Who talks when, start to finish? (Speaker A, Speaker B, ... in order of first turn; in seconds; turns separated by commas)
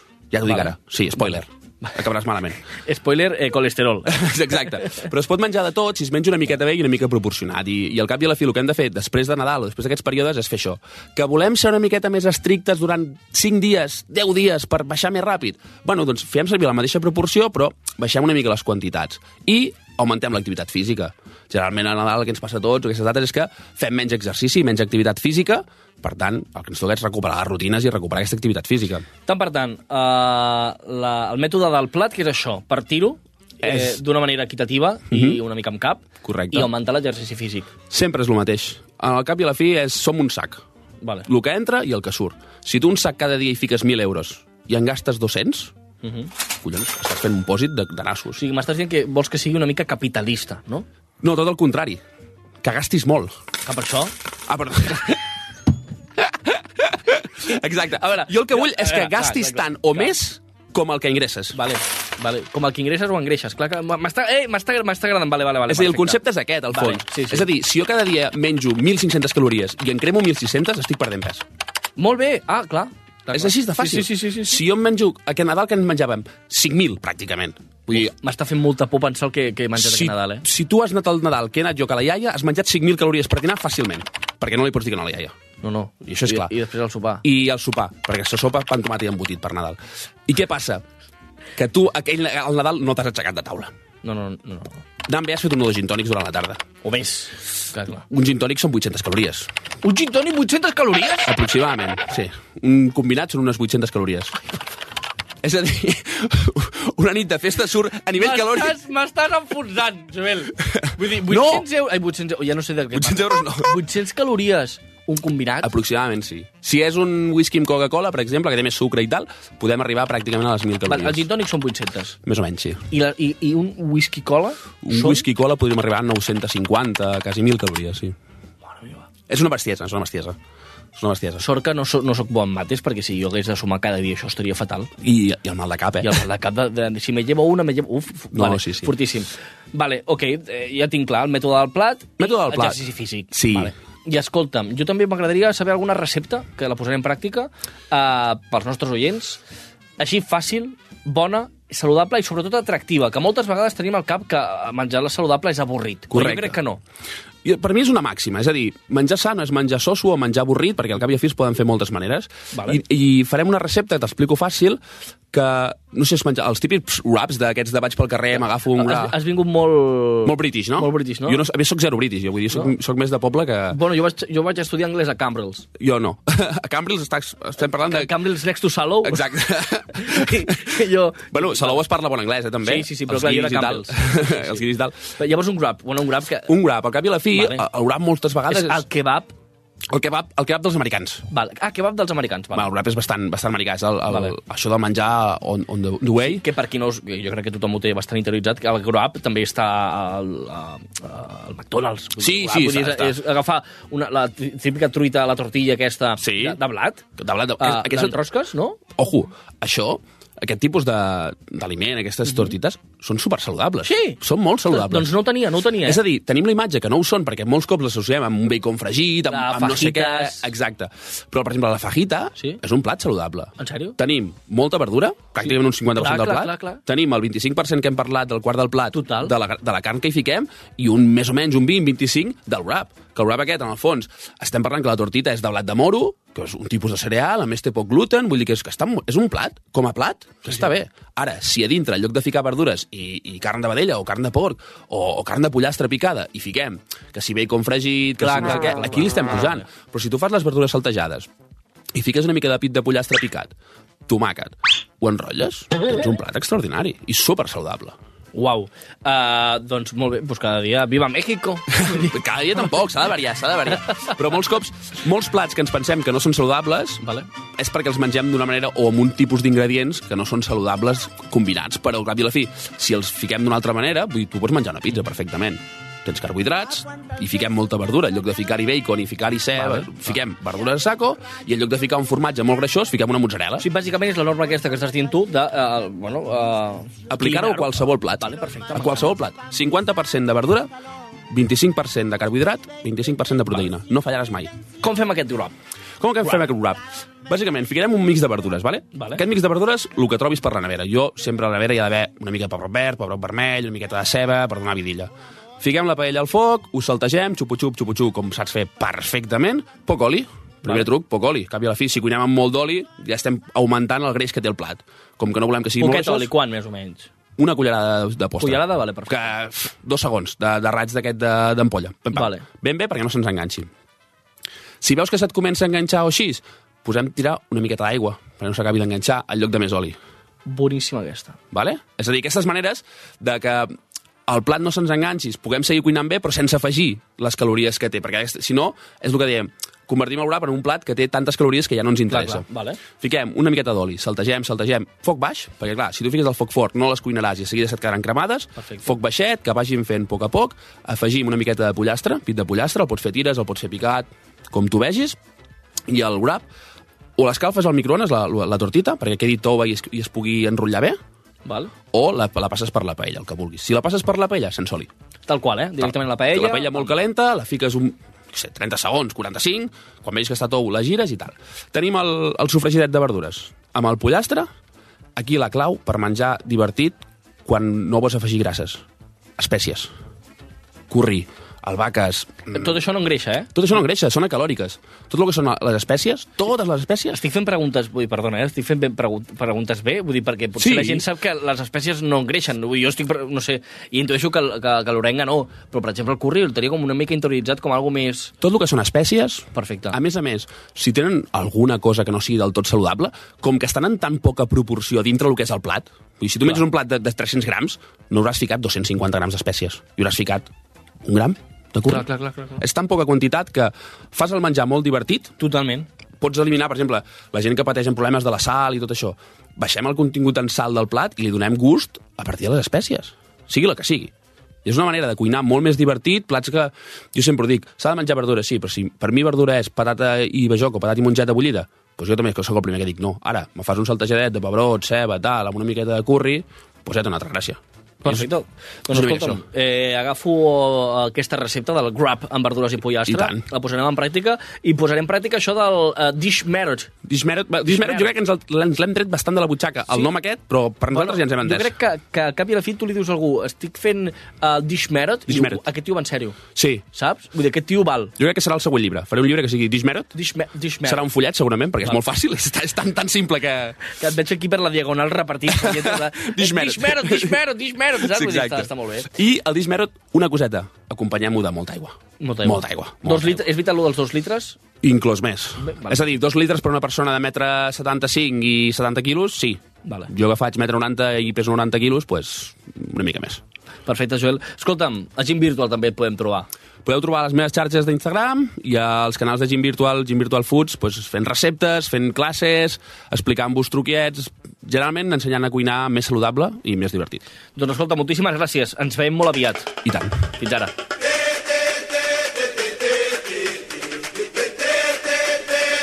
Speaker A: 0.3-2.6, Speaker B: 0.5-1.3, Speaker B: 2.7-4.3, Speaker A: 4.0-29.1, Speaker B: 29.2-37.7, Speaker A: 33.6-34.0, Speaker A: 35.1-35.4, Speaker A: 36.2-36.7, Speaker A: 37.9-40.6, Speaker B: 41.0-41.3, Speaker A: 41.3-45.7, Speaker B: 46.0-46.3, Speaker A: 46.6-48.4, Speaker B: 48.3-50.9, Speaker A: 51.2-52.0, Speaker A: 52.6-53.3, Speaker B: 53.6-54.1, Speaker A: 54.5-55.2, Speaker A: 56.2-61.6, Speaker B: 58.5-60.1, Speaker B: 61.5-66.2, Speaker A: 65.7-71.4, Speaker B: 66.7-67.5, Speaker B: 72.0-74.6, Speaker A: 73.3-78.1, Speaker B: 77.9-80.5, Speaker A: 79.8-85.3, Speaker B: 85.6-87.2, Speaker A: 86.0-86.5, Speaker A: 87.2-90.8, Speaker A: 91.6-93.7, Speaker B: 94.0-94.8, Speaker A: 95.1-96.6, Speaker B: 96.8-98.0, Speaker A: 98.1-99.5, Speaker B: 99.8-101.3, Speaker A: 101.2-104.3, Speaker A: 105.4-108.8, Speaker B: 108.2-115.7, Speaker A: 110.6-111.6, Speaker A: 112.9-113.7, Speaker A: 115.6-121.3, Speaker B: 120.8-122.2, Speaker A: 122.2-122.8, Speaker B: 122.9-125.2, Speaker A: 124.8-128.1, Speaker B: 128.7-129.1, Speaker A: 129.3-130.3, Speaker A: 131.0-131.4, Speaker B: 131.4-134.9, Speaker A: 135.0-136.2, Speaker B: 136.0-149.4, Speaker A: 138.3-138.9, Speaker A: 142.2-142.8, Speaker A: 143.3-143.7, Speaker B: 150.0-156.8, Speaker A: 156.1-156.6, Speaker A: 157.4-164.8, Speaker B: 162.5-162.8, Speaker A: 165.3-169.1, Speaker B: 168.8-171.4, Speaker A: 170.2-173.8, Speaker B: 173.7-175.7, Speaker A: 175.8-178.1, Speaker B: 177.8-179.3, Speaker A: 179.0-185.0, Speaker B: 179.9-181.8, Speaker B: 182.6-184.6, Speaker B: 185.2-186.5, Speaker A: 186.5-188.8, Speaker B: 187.3-187.6, Speaker B: 188.5-189.3, Speaker A: 189.9-191.2, Speaker B: 191.3-192.7, Speaker A: 192.5-196.4, Speaker B: 196.2-207.0, Speaker A: 202.2-203.2, Speaker A: 206.2-206.6, Speaker A: 207.2-208.2, Speaker B: 207.6-208.8, Speaker A: 209.0-215.1, Speaker B: 213.8-216.0, Speaker A: 215.8-251.3, Speaker B: 219.3-220.5, Speaker B: 223.6-223.9, Speaker B: 225.9-226.8, Speaker B: 228.9-229.3, Speaker B: 248.2-249.6, Speaker A: 251.9-253.5, Speaker A: 254.1-257.9, Speaker B: 258.3-262.1, Speaker A: 261.7-267.0, Speaker B: 267.0-267.3, Speaker A: 267.6-283.6, Speaker B: 279.6-280.1, Speaker B: 283.6-289.1, Speaker A: 287.1-290.7, Speaker A: 291.3-294.5, Speaker B: 294.8-295.5, Speaker A: 296.0-316.3, Speaker B: 298.9-299.2, Speaker B: 315.8-317.1, Speaker A: 317.4-323.7, Speaker B: 318.4-319.3, Speaker B: 322.1-322.4, Speaker A: 324.8-329.9, Speaker B: 330.4-331.4, Speaker A: 331.5-333.7, Speaker A: 334.3-342.4, Speaker B: 342.1-342.8, Speaker A: 343.0-355.2, Speaker B: 348.6-348.9, Speaker A: 355.9-356.4, Speaker A: 357.2-361.0, Speaker B: 361.4-361.7, Speaker A: 361.9-364.9, Speaker B: 365.2-366.9, Speaker A: 365.8-374.5, Speaker A: 375.2-378.8, Speaker A: 379.4-379.9, Speaker A: 380.9-382.8, Speaker B: 382.5-383.5, Speaker A: 383.5-387.2, Speaker B: 387.1-398.3, Speaker A: 390.6-391.0, Speaker A: 398.4-410.5, Speaker B: 399.5-400.0, Speaker A: 411.0-412.1, Speaker B: 411.9-412.6, Speaker A: 412.6-415.3, Speaker B: 415.4-415.9, Speaker A: 416.2-424.1, Speaker A: 424.6-438.3, Speaker B: 438.0-446.9, Speaker A: 438.9-439.4, Speaker A: 443.1-443.4, Speaker A: 447.1-451.7, Speaker B: 447.7-448.1, Speaker B: 450.9-456.4, Speaker A: 455.3-455.6, Speaker A: 456.5-456.8, Speaker B: 456.9-458.1, Speaker A: 458.2-460.1, Speaker B: 460.1-461.0, Speaker A: 460.8-463.8, Speaker B: 463.9-469.1, Speaker A: 465.5-467.4, Speaker A: 468.0-473.4, Speaker B: 472.2-474.6, Speaker A: 474.8-483.4, Speaker B: 475.6-476.0, Speaker B: 479.8-480.1, Speaker B: 483.9-486.5, Speaker A: 486.8-497.2, Speaker B: 497.6-499.7, Speaker A: 499.8-500.2, Speaker B: 500.4-500.7